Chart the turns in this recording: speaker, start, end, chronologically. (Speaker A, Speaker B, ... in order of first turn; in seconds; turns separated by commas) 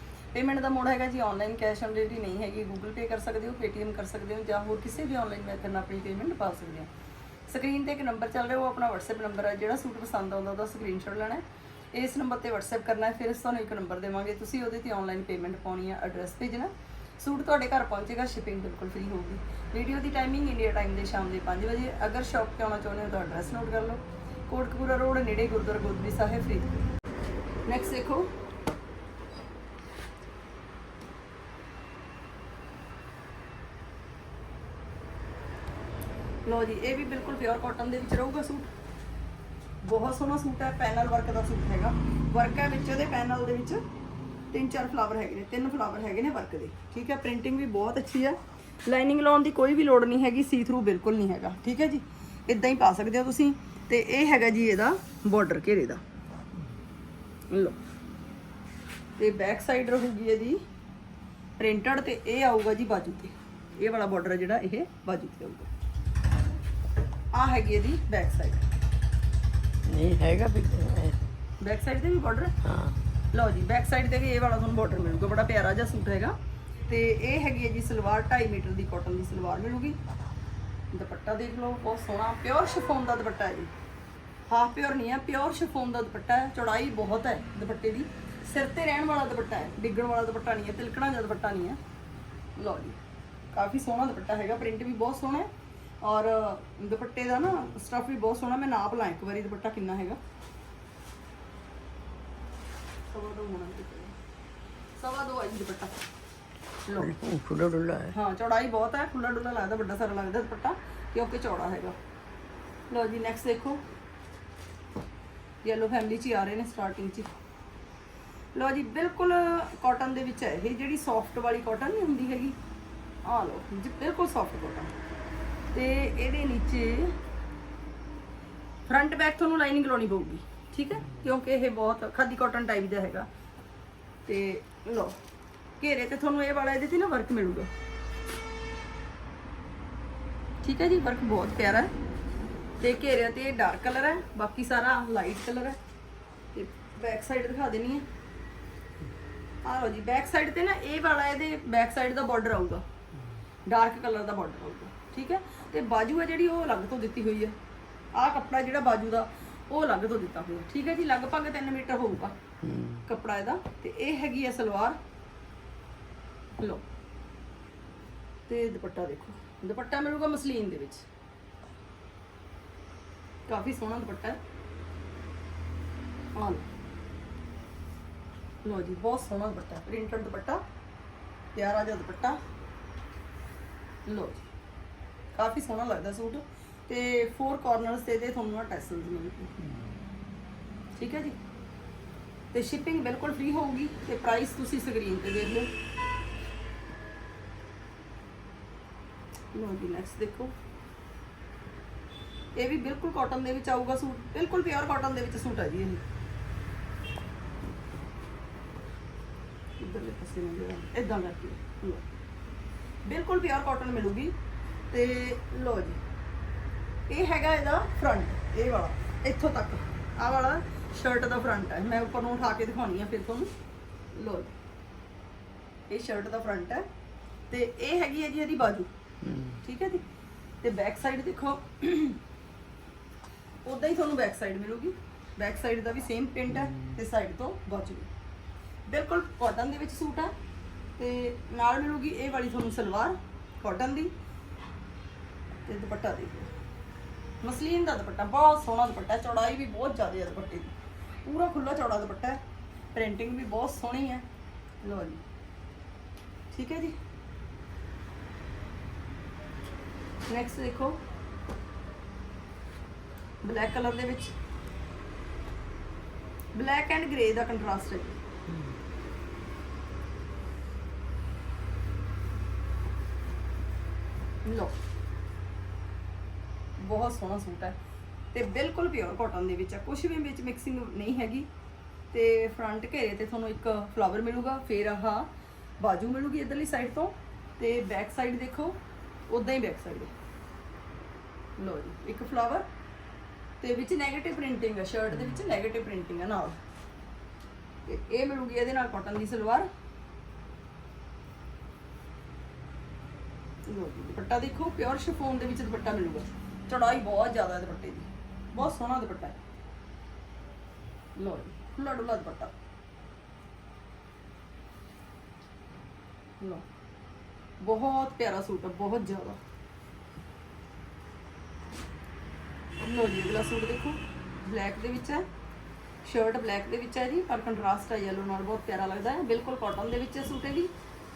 Speaker A: 0.3-6.9, Speaker A: 7.5-26.9, Speaker A: 27.7-28.3, Speaker A: 36.5-38.7, Speaker A: 39.8-43.8, Speaker A: 44.5-56.0, Speaker A: 57.5-57.8, Speaker A: 59.2-60.6, Speaker A: 61.6-65.7, Speaker A: 67.3-68.7, Speaker B: 69.9-71.2, Speaker A: 71.6-72.5, Speaker B: 72.6-73.0, Speaker A: 73.3-76.3, Speaker A: 76.9-80.0, Speaker A: 80.9-83.7, Speaker A: 84.5-91.8, Speaker A: 92.6-93.0, Speaker A: 93.5-95.5, Speaker A: 96.0-100.2, Speaker A: 103.1-104.2, Speaker A: 105.0-106.0, Speaker A: 106.9-107.2, Speaker B: 107.0-108.2, Speaker A: 108.1-112.0, Speaker A: 112.9-113.8, Speaker A: 115.6-117.3, Speaker A: 118.5-122.6, Speaker A: 123.3-124.9, Speaker A: 125.7-127.2, Speaker A: 128.9-133.3, Speaker A: 134.3-135.2, Speaker A: 135.8-137.7, Speaker A: 140.6-141.9, Speaker A: 142.8-145.8, Speaker A: 146.5-148.1, Speaker A: 149.7-152.8, Speaker A: 153.7-157.6, Speaker A: 158.2-162.4, Speaker B: 162.6-163.0, Speaker A: 163.1-165.0, Speaker A: 166.6-166.8, Speaker A: 168.5-171.1, Speaker A: 173.5-174.4, Speaker A: 176.3-176.7, Speaker A: 178.6-180.6, Speaker A: 181.6-182.4, Speaker A: 184.1-184.4, Speaker A: 185.3-189.6, Speaker B: 189.7-189.9, Speaker A: 190.9-191.4, Speaker A: 192.5-195.7, Speaker A: 199.5-200.5, Speaker A: 202.6-206.0, Speaker A: 209.8-212.1, Speaker A: 213.1-214.3, Speaker A: 214.9-216.0, Speaker A: 217.1-223.5, Speaker A: 224.1-224.5, Speaker A: 225.9-226.8, Speaker A: 227.5-228.9, Speaker B: 229.2-229.6, Speaker A: 229.6-230.0, Speaker A: 230.6-232.2, Speaker A: 233.7-238.1, Speaker B: 236.5-237.0, Speaker A: 238.9-240.3, Speaker A: 241.0-244.1, Speaker A: 245.7-246.5, Speaker A: 247.4-250.7, Speaker A: 251.3-252.4, Speaker A: 252.9-254.2, Speaker A: 254.8-255.2, Speaker A: 256.5-256.9, Speaker A: 260.3-261.0, Speaker A: 263.4-264.3, Speaker A: 266.6-268.2, Speaker A: 274.4-274.8, Speaker A: 276.8-277.8, Speaker A: 278.3-281.5, Speaker A: 282.1-285.3, Speaker A: 285.8-288.8, Speaker A: 289.3-290.1, Speaker A: 291.6-292.7, Speaker A: 293.6-296.6, Speaker A: 297.9-299.7, Speaker A: 303.7-309.4, Speaker A: 311.2-312.5, Speaker A: 316.4-316.6, Speaker A: 317.6-319.4, Speaker A: 322.8-325.2, Speaker A: 326.0-330.7